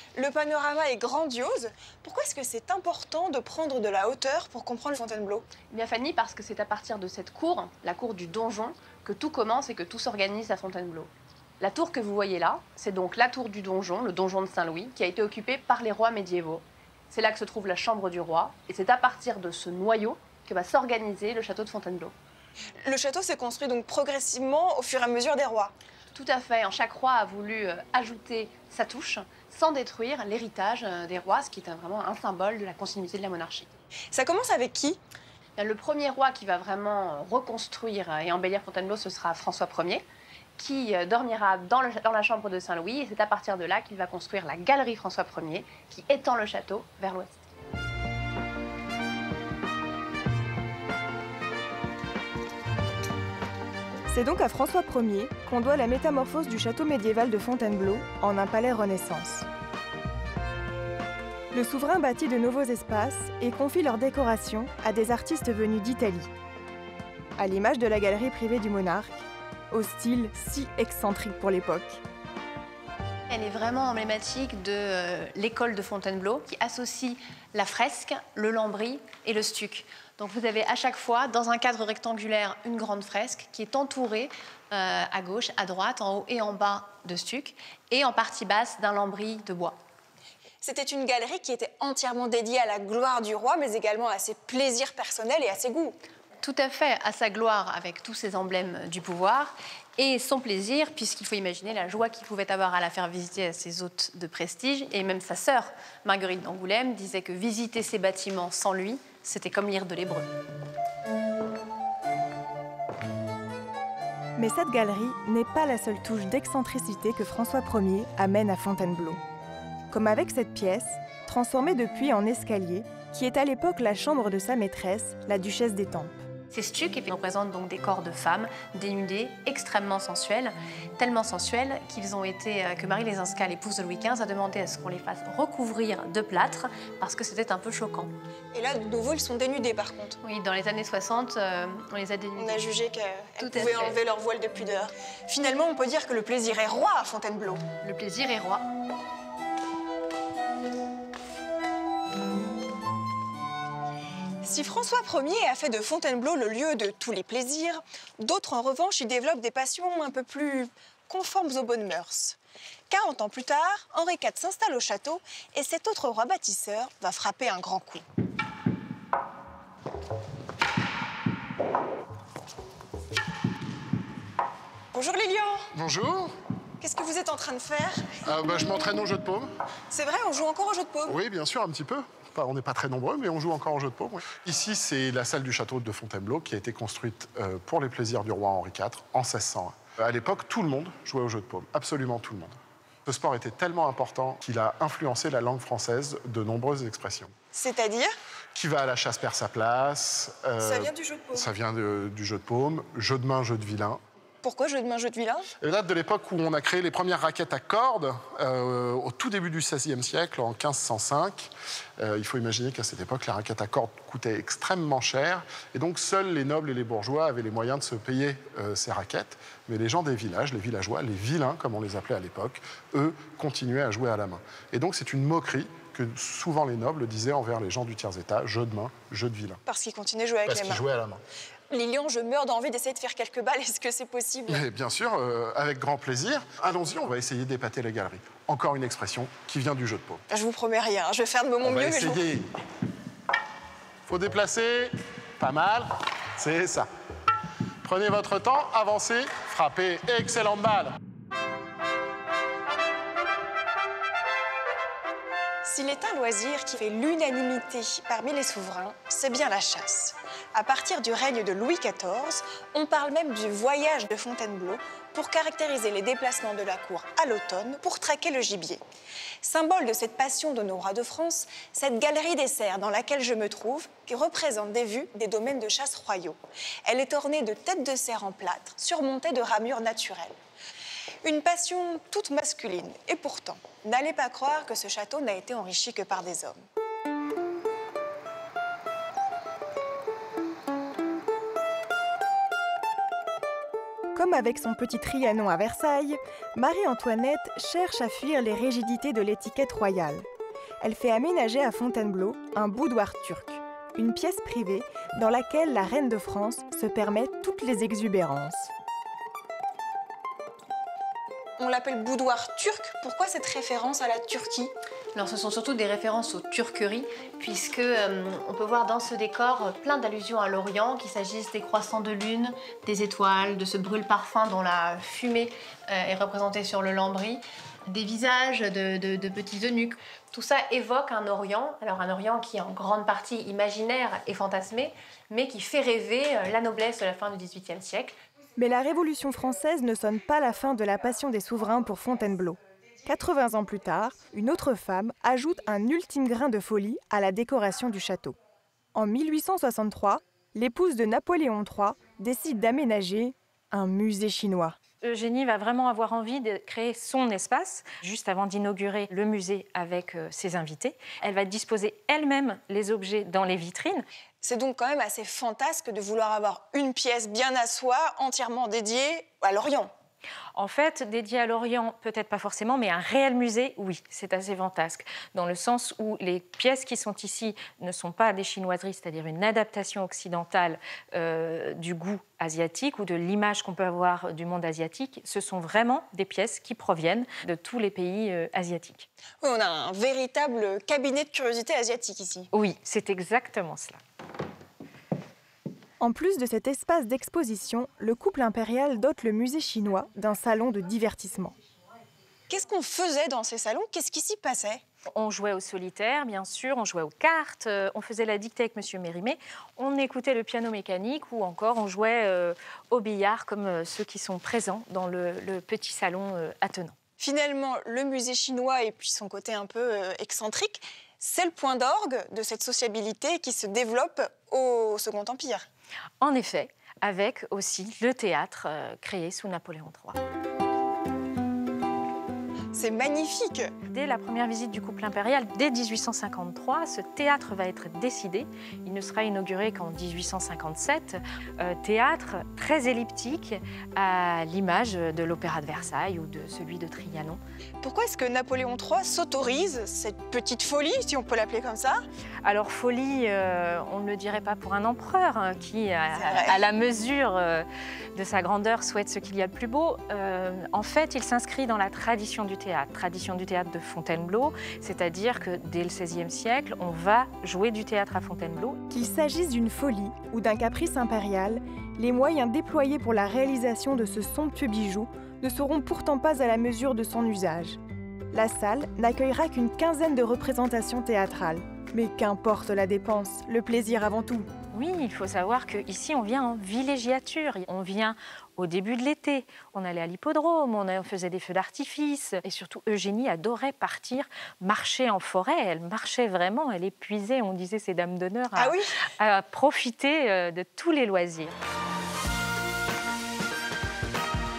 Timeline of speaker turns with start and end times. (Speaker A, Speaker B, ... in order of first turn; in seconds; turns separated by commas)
Speaker A: 0.1-5.5, Speaker B: 5.7-22.1, Speaker A: 22.8-25.7, Speaker B: 26.1-33.7, Speaker A: 34.1-35.0, Speaker B: 35.6-40.0, Speaker B: 40.6-47.4, Speaker C: 54.1-59.5, Speaker C: 61.5-66.3, Speaker C: 67.4-72.0, Speaker B: 73.3-89.8, Speaker A: 90.6-96.0, Speaker B: 96.4-110.3, Speaker C: 114.4-119.2, Speaker C: 119.9-126.2, Speaker B: 126.5-138.1, Speaker A: 138.5-140.2, Speaker B: 140.2-142.7, Speaker A: 142.4-147.6, Speaker B: 143.4-144.0, Speaker B: 147.8-148.6, Speaker A: 154.4-162.4, Speaker A: 162.9-168.0, Speaker A: 174.9-175.7, Speaker D: 175.7-176.3, Speaker A: 176.8-178.2, Speaker D: 178.2-179.5, Speaker A: 179.9-181.2, Speaker D: 181.1-192.5, Speaker D: 193.1-197.3, Speaker A: 197.4-198.1, Speaker D: 198.5-204.0, Speaker A: 200.6-201.5, Speaker A: 204.4-205.4, Speaker D: 205.6-229.6, Speaker A: 229.7-230.9, Speaker D: 230.4-231.2, Speaker A: 231.7-234.7, Speaker D: 234.5-240.2, Speaker A: 240.3-242.3, Speaker D: 241.6-242.5, Speaker D: 244.1-246.9, Speaker D: 247.8-250.9, Speaker A: 255.6-268.8, Speaker A: 269.4-280.3, Speaker A: 281.2-286.6, Speaker C: 294.1-300.2, Speaker C: 300.8-308.7, Speaker A: 311.6-314.7, Speaker B: 315.1-338.2, Speaker C: 338.6-348.4, Speaker C: 348.9-354.8, Speaker E: 355.0-364.1, Speaker A: 364.4-369.9, Speaker E: 370.5-389.1, Speaker A: 389.4-392.5, Speaker E: 392.5-394.0, Speaker C: 396.0-401.5, Speaker A: 402.5-404.8, Speaker E: 405.1-416.9, Speaker A: 417.2-425.6, Speaker E: 426.2-430.2, Speaker A: 432.7-433.7, Speaker E: 433.9-447.4, Speaker A: 447.8-452.0, Speaker E: 452.4-468.8, Speaker A: 456.1-456.6, Speaker C: 468.9-477.8, Speaker C: 478.3-484.5, Speaker E: 484.7-501.6, Speaker A: 498.5-498.9